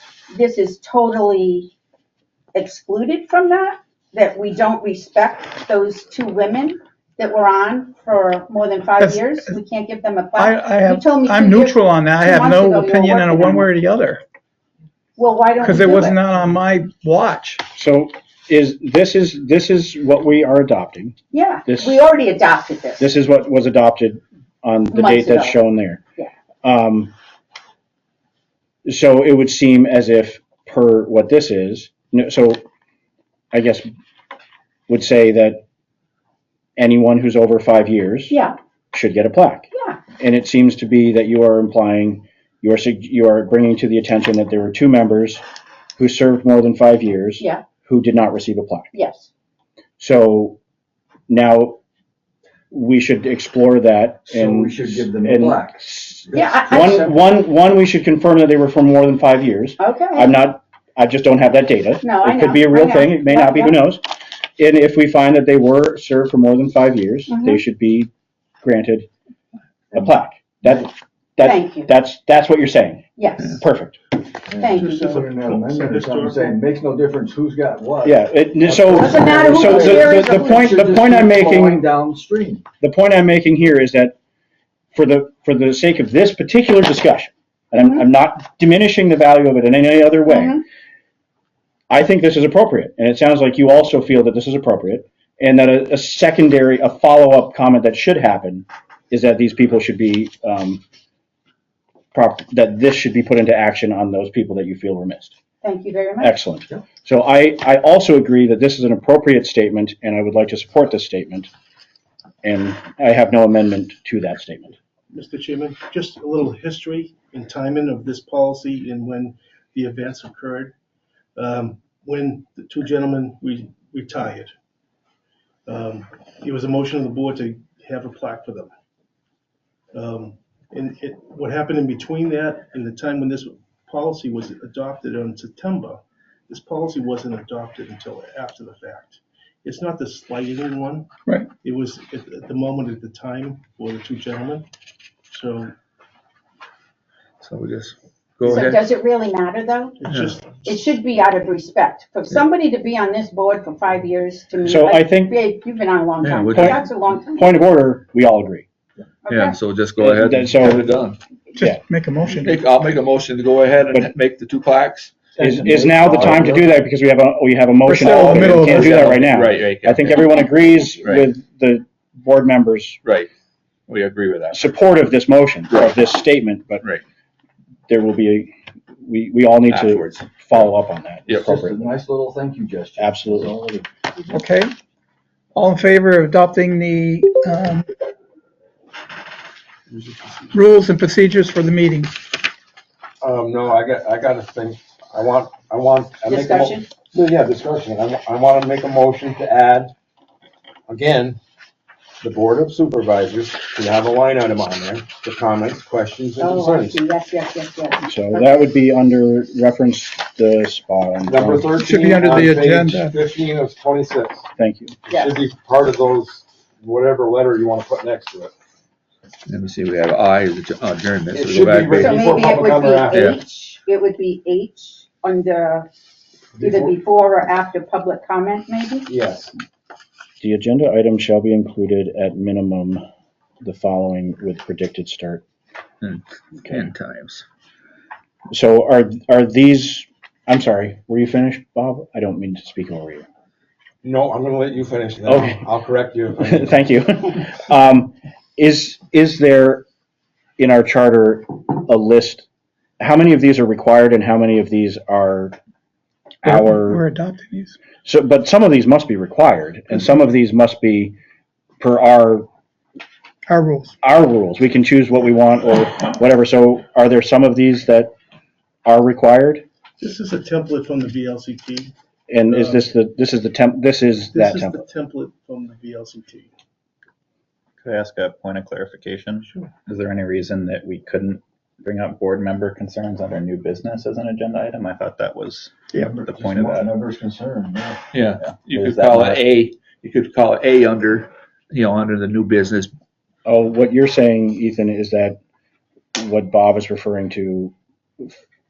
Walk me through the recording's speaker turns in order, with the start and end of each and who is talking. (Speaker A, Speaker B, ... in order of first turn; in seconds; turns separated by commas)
Speaker A: 0.3-1.7, Speaker A: 2.5-13.7, Speaker B: 9.0-9.3, Speaker B: 10.3-14.2, Speaker A: 15.2-16.2, Speaker B: 15.6-17.6, Speaker C: 17.7-21.1, Speaker A: 21.3-23.1, Speaker C: 21.7-22.0, Speaker C: 23.0-26.0, Speaker A: 24.9-25.6, Speaker C: 26.6-27.1, Speaker C: 28.9-32.6, Speaker C: 33.5-33.9, Speaker C: 34.9-35.6, Speaker C: 36.8-38.4, Speaker A: 38.3-38.6, Speaker C: 38.9-45.4, Speaker A: 39.7-40.0, Speaker C: 46.0-48.9, Speaker A: 48.9-49.3, Speaker C: 50.0-50.6, Speaker C: 51.3-51.8, Speaker C: 52.7-64.0, Speaker D: 54.3-55.8, Speaker D: 56.3-57.0, Speaker A: 56.3-56.9, Speaker A: 59.8-60.4, Speaker A: 62.0-63.8, Speaker C: 64.6-68.1, Speaker A: 67.3-67.6, Speaker C: 68.6-69.1, Speaker C: 69.9-74.0, Speaker A: 71.4-71.9, Speaker A: 73.2-73.6, Speaker D: 74.5-78.1, Speaker A: 74.6-75.1, Speaker E: 74.7-76.7, Speaker C: 78.0-81.8, Speaker D: 78.7-80.1, Speaker A: 78.8-80.8, Speaker D: 80.6-82.6, Speaker C: 82.8-84.2, Speaker C: 84.9-90.6, Speaker A: 87.8-88.0, Speaker A: 90.3-90.6, Speaker C: 91.9-100.8, Speaker C: 102.1-105.3, Speaker A: 105.6-106.3, Speaker C: 106.2-111.5, Speaker C: 112.4-114.8, Speaker E: 115.1-120.7, Speaker E: 121.4-124.5, Speaker E: 125.7-128.7, Speaker E: 129.9-141.1, Speaker E: 141.6-144.7, Speaker E: 145.3-145.7, Speaker F: 147.4-148.8, Speaker A: 148.4-150.0, Speaker E: 150.0-151.0, Speaker F: 150.1-150.4, Speaker A: 150.6-157.5, Speaker C: 154.6-155.4, Speaker F: 156.2-156.8, Speaker C: 156.5-158.7, Speaker A: 159.3-159.6, Speaker F: 159.3-161.2, Speaker C: 160.0-160.9, Speaker B: 161.6-162.6, Speaker C: 161.6-161.8, Speaker F: 162.3-165.1, Speaker C: 165.4-173.0, Speaker B: 165.4-165.8, Speaker D: 166.1-166.5, Speaker B: 167.8-169.1, Speaker F: 168.2-170.5, Speaker F: 171.0-171.3, Speaker F: 173.0-173.3, Speaker F: 173.9-174.7, Speaker C: 174.5-176.8, Speaker C: 177.9-178.5, Speaker C: 179.0-181.9, Speaker F: 179.7-180.7, Speaker F: 181.3-181.5, Speaker D: 181.7-183.9, Speaker C: 183.0-183.6, Speaker B: 184.3-184.7, Speaker B: 185.5-187.9, Speaker B: 190.5-192.1, Speaker G: 193.2-199.9, Speaker A: 196.3-196.9, Speaker G: 200.9-201.4, Speaker G: 202.2-207.0, Speaker A: 206.4-208.5, Speaker C: 208.0-211.7, Speaker G: 211.3-214.5, Speaker B: 211.8-213.2, Speaker C: 214.6-215.0, Speaker G: 215.1-218.5, Speaker A: 215.1-215.4, Speaker F: 219.5-222.2, Speaker G: 221.3-223.3, Speaker A: 222.0-225.9, Speaker F: 223.1-223.4, Speaker G: 226.6-227.0, Speaker A: 226.6-229.1, Speaker G: 229.1-229.5, Speaker C: 230.4-233.0, Speaker C: 233.6-235.4, Speaker F: 236.0-237.4, Speaker C: 238.5-243.3, Speaker G: 244.0-246.8, Speaker C: 245.3-245.6, Speaker C: 246.4-249.8, Speaker C: 250.6-252.5, Speaker C: 253.0-255.6, Speaker C: 256.4-257.1, Speaker B: 256.4-257.8, Speaker C: 258.1-261.1, Speaker C: 261.8-262.5, Speaker B: 263.5-263.9, Speaker C: 264.0-268.1, Speaker C: 268.9-269.6, Speaker E: 270.0-271.9, Speaker C: 272.3-274.8, Speaker E: 272.5-272.9, Speaker E: 274.3-276.5, Speaker H: 277.8-286.9, Speaker E: 279.4-279.7, Speaker D: 286.1-288.0, Speaker F: 288.1-292.9, Speaker H: 288.4-289.4, Speaker C: 293.5-295.4, Speaker C: 296.2-298.3